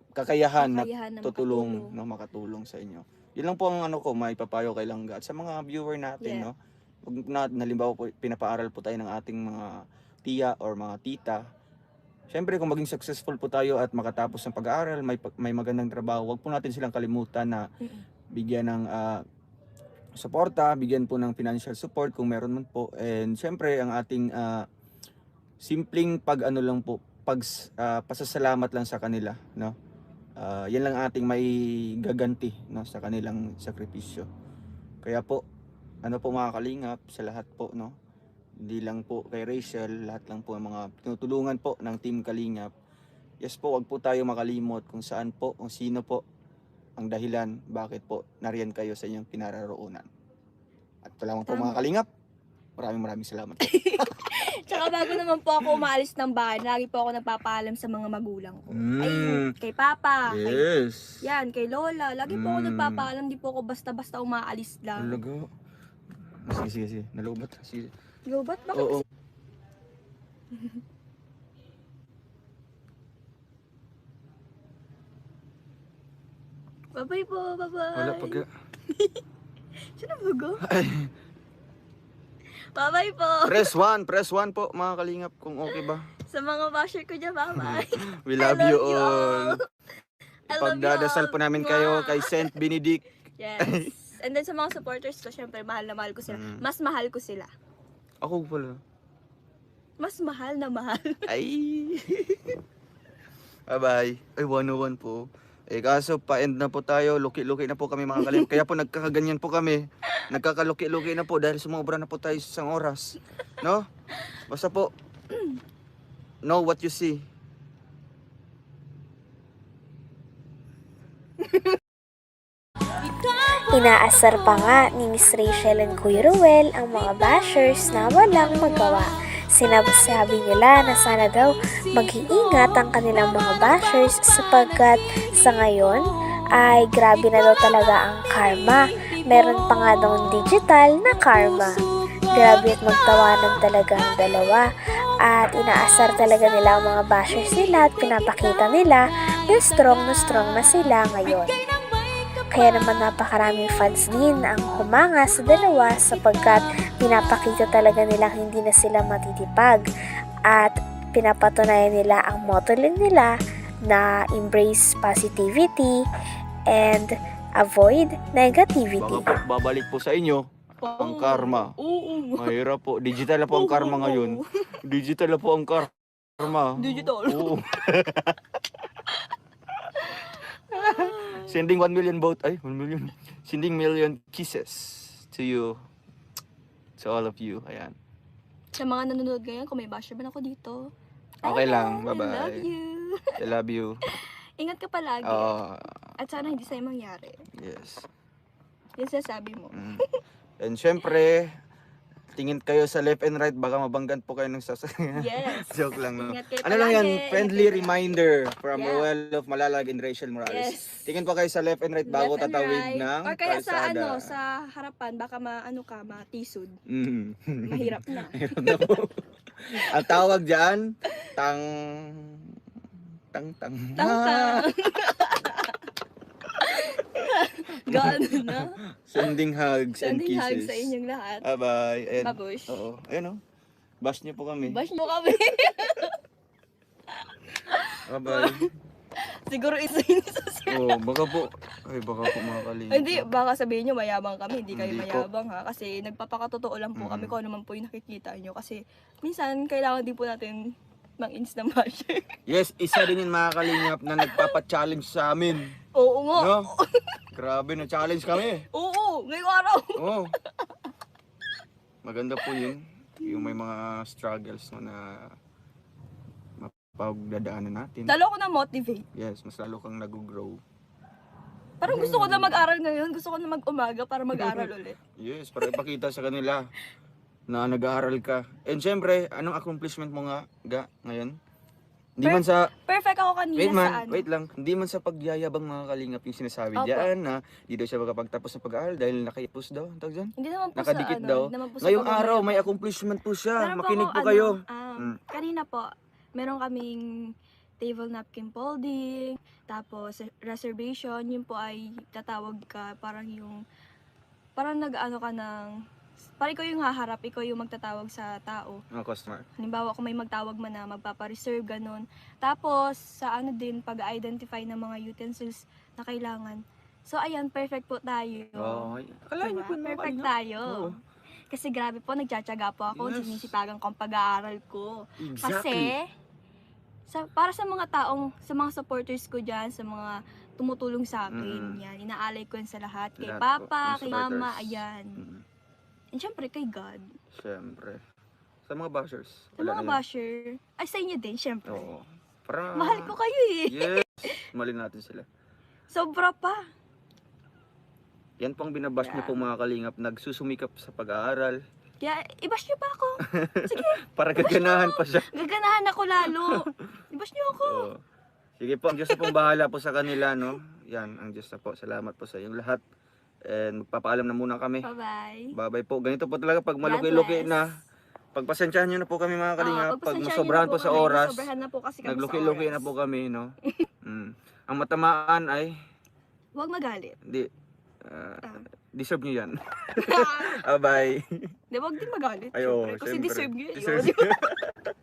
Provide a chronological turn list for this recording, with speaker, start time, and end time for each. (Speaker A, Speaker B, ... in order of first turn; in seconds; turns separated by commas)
Speaker A: 0.1-6.5, Speaker B: 0.6-2.0, Speaker B: 6.2-6.5, Speaker A: 7.0-11.4, Speaker A: 12.3-17.6, Speaker A: 18.3-19.2, Speaker A: 20.2-24.6, Speaker A: 25.6-29.7, Speaker A: 30.4-34.3, Speaker A: 35.0-35.4, Speaker A: 36.0-38.0, Speaker A: 38.6-42.7, Speaker A: 43.4-46.2, Speaker A: 47.0-50.1, Speaker A: 51.0-52.1, Speaker B: 51.5-51.8, Speaker A: 52.8-54.1, Speaker B: 53.6-60.7, Speaker A: 58.7-59.5, Speaker A: 60.3-61.2, Speaker B: 61.2-65.2, Speaker A: 62.3-63.1, Speaker A: 65.0-65.5, Speaker A: 66.4-67.9, Speaker B: 68.2-69.0, Speaker A: 68.7-69.0, Speaker B: 70.5-70.8, Speaker B: 76.9-79.2, Speaker A: 78.0-78.5, Speaker B: 79.9-80.6, Speaker A: 80.7-81.1, Speaker B: 82.7-83.7, Speaker A: 83.5-86.1, Speaker B: 85.7-89.6, Speaker A: 87.6-89.6, Speaker B: 90.5-92.5, Speaker A: 90.5-93.0, Speaker B: 93.4-97.5, Speaker A: 93.6-93.9, Speaker A: 96.3-96.6, Speaker A: 98.2-98.8, Speaker B: 100.0-101.2, Speaker A: 101.3-102.4, Speaker A: 103.7-113.9, Speaker B: 108.2-108.6, Speaker A: 114.5-114.9, Speaker A: 116.4-117.2, Speaker C: 123.7-136.0, Speaker C: 136.5-144.7, Speaker C: 145.2-151.6, Speaker C: 152.5-159.8, Speaker C: 160.5-163.3, Speaker C: 163.9-166.0, Speaker C: 166.7-169.2, Speaker A: 169.0-170.4, Speaker B: 170.8-172.5, Speaker A: 171.0-171.7, Speaker A: 172.3-178.4, Speaker B: 173.5-174.4, Speaker B: 176.7-177.6, Speaker B: 179.9-181.6, Speaker A: 180.7-185.8, Speaker A: 187.0-187.9, Speaker B: 188.8-190.9, Speaker B: 191.4-193.3, Speaker A: 191.4-192.7, Speaker A: 193.4-194.0, Speaker B: 194.1-195.6, Speaker A: 195.2-195.9, Speaker B: 196.2-197.4, Speaker A: 197.6-198.1, Speaker B: 199.0-200.0, Speaker A: 199.7-200.0, Speaker A: 200.6-201.6, Speaker A: 202.3-214.3, Speaker B: 205.1-208.2, Speaker B: 208.7-209.1, Speaker B: 210.4-211.1, Speaker B: 212.1-216.8, Speaker A: 216.9-222.6, Speaker B: 217.7-218.8, Speaker B: 219.8-220.3, Speaker A: 223.3-224.6, Speaker B: 224.0-225.9, Speaker B: 226.6-229.3, Speaker A: 227.9-230.9, Speaker B: 230.0-231.4, Speaker A: 231.4-233.4, Speaker B: 232.2-232.8, Speaker A: 234.0-234.8, Speaker B: 234.6-236.1, Speaker B: 237.5-238.7, Speaker A: 238.0-238.7, Speaker B: 239.4-241.2, Speaker A: 240.7-243.3, Speaker B: 242.3-250.6, Speaker A: 244.7-245.3, Speaker A: 247.0-247.3, Speaker B: 251.2-252.3, Speaker A: 252.5-255.7, Speaker B: 253.0-254.5, Speaker B: 255.9-257.0, Speaker A: 256.4-256.7, Speaker A: 257.3-258.6, Speaker B: 258.3-260.9, Speaker A: 260.0-260.3, Speaker A: 262.0-265.3, Speaker B: 262.4-263.6, Speaker A: 266.6-268.1, Speaker B: 268.1-269.1, Speaker A: 269.1-270.6, Speaker B: 271.8-274.9, Speaker A: 271.8-272.6, Speaker A: 274.3-276.6, Speaker A: 277.5-281.4, Speaker A: 282.2-282.7, Speaker B: 282.2-284.2, Speaker A: 283.6-295.2, Speaker B: 286.8-287.1, Speaker B: 290.4-292.7, Speaker B: 293.6-297.1, Speaker B: 297.8-303.6, Speaker B: 304.6-305.8, Speaker B: 306.4-308.8, Speaker A: 308.9-309.4, Speaker B: 309.6-320.9, Speaker A: 318.5-320.9, Speaker B: 321.5-326.1, Speaker A: 322.9-323.5, Speaker A: 325.2-325.9, Speaker B: 327.1-335.2, Speaker A: 331.3-331.8, Speaker A: 333.2-335.4, Speaker B: 336.1-337.1, Speaker A: 337.4-338.0, Speaker A: 338.7-340.0, Speaker B: 339.6-341.9, Speaker A: 341.7-343.1, Speaker B: 342.7-344.4, Speaker A: 343.7-345.2, Speaker B: 345.9-346.6, Speaker A: 348.4-351.6, Speaker B: 349.0-349.4, Speaker B: 352.0-357.9, Speaker A: 353.3-355.3, Speaker A: 356.4-356.6, Speaker A: 357.6-358.0, Speaker A: 358.6-362.8, Speaker B: 359.1-359.4, Speaker B: 360.1-360.5, Speaker A: 363.4-364.9, Speaker B: 364.8-365.5, Speaker A: 365.5-367.7, Speaker B: 366.8-367.6, Speaker A: 368.3-371.5, Speaker B: 369.6-372.9, Speaker A: 372.0-375.8, Speaker B: 376.5-377.2, Speaker A: 378.0-381.4, Speaker B: 379.9-380.6, Speaker B: 381.7-384.5, Speaker A: 382.5-384.7